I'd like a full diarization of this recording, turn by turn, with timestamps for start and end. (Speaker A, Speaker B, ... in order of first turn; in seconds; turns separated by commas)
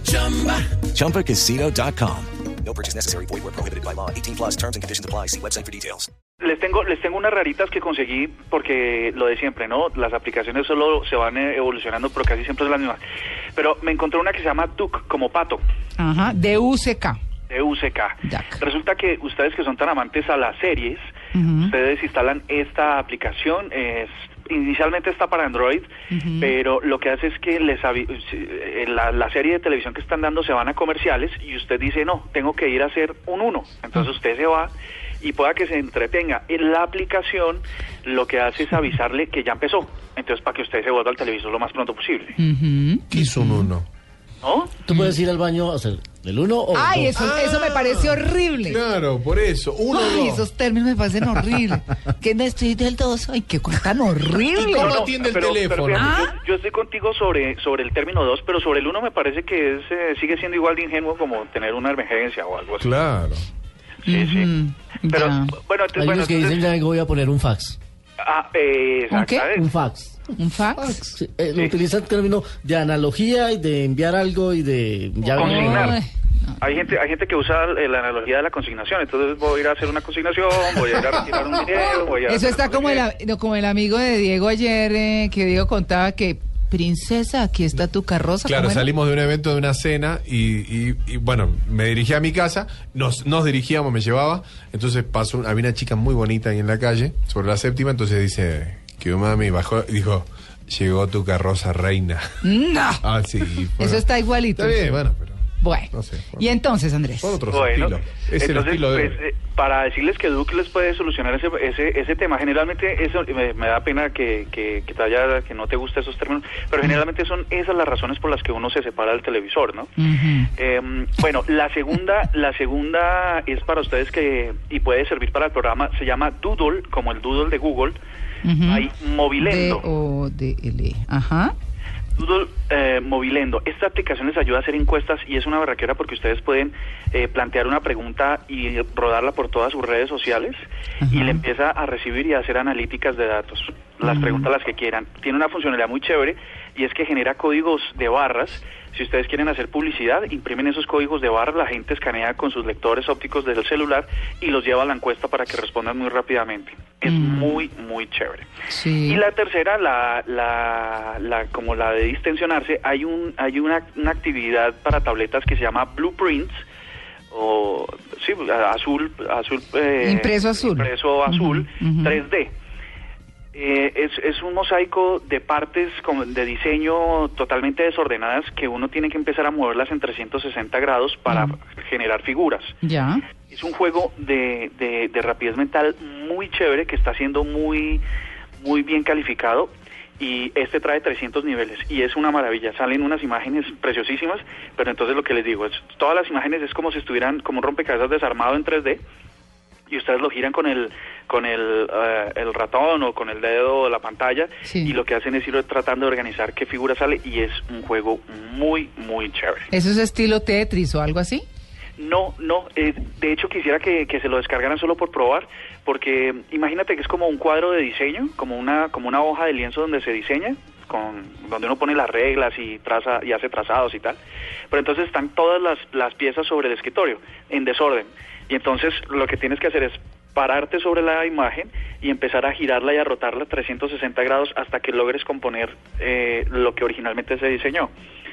Speaker A: 0.8-6.1, Speaker B: 6.4-13.0, Speaker B: 13.6-15.6, Speaker C: 16.0-17.2, Speaker B: 17.5-21.0, Speaker C: 18.2-18.6, Speaker C: 21.3-21.7, Speaker B: 21.6-42.4, Speaker C: 26.1-26.5, Speaker C: 42.4-43.7, Speaker D: 43.1-43.9, Speaker B: 44.4-44.8, Speaker E: 44.9-47.3, Speaker C: 46.7-48.8, Speaker D: 47.1-50.5, Speaker C: 49.9-55.1, Speaker D: 54.5-56.1, Speaker B: 54.8-63.0, Speaker C: 56.0-56.3, Speaker D: 62.8-63.4, Speaker B: 64.1-64.5, Speaker C: 64.1-65.6, Speaker B: 65.1-66.7, Speaker E: 66.0-67.8, Speaker B: 68.2-69.7, Speaker C: 69.1-69.5, Speaker E: 69.5-76.0, Speaker C: 70.3-71.0, Speaker C: 75.3-76.5, Speaker B: 75.4-76.0, Speaker B: 76.6-83.1, Speaker C: 82.3-88.9, Speaker D: 88.5-102.3, Speaker C: 102.4-103.0, Speaker D: 103.0-106.6, Speaker C: 103.8-105.0, Speaker C: 105.6-107.4, Speaker D: 107.2-109.2, Speaker B: 107.5-119.9, Speaker C: 120.0-120.5, Speaker B: 120.6-128.0, Speaker C: 128.4-128.8, Speaker B: 128.7-129.8, Speaker C: 129.4-131.5, Speaker B: 132.2-140.6, Speaker C: 141.0-141.4, Speaker B: 141.1-158.5, Speaker C: 144.0-144.5, Speaker C: 157.1-157.5, Speaker C: 158.7-159.2, Speaker B: 159.1-166.6, Speaker B: 167.3-172.5, Speaker C: 170.0-172.2, Speaker B: 173.5-182.8, Speaker C: 181.3-181.6, Speaker C: 182.8-183.2, Speaker B: 183.5-188.0, Speaker B: 188.6-199.0, Speaker B: 199.9-209.7, Speaker C: 204.7-204.9, Speaker C: 209.7-211.4, Speaker B: 212.0-224.2, Speaker B: 224.7-237.9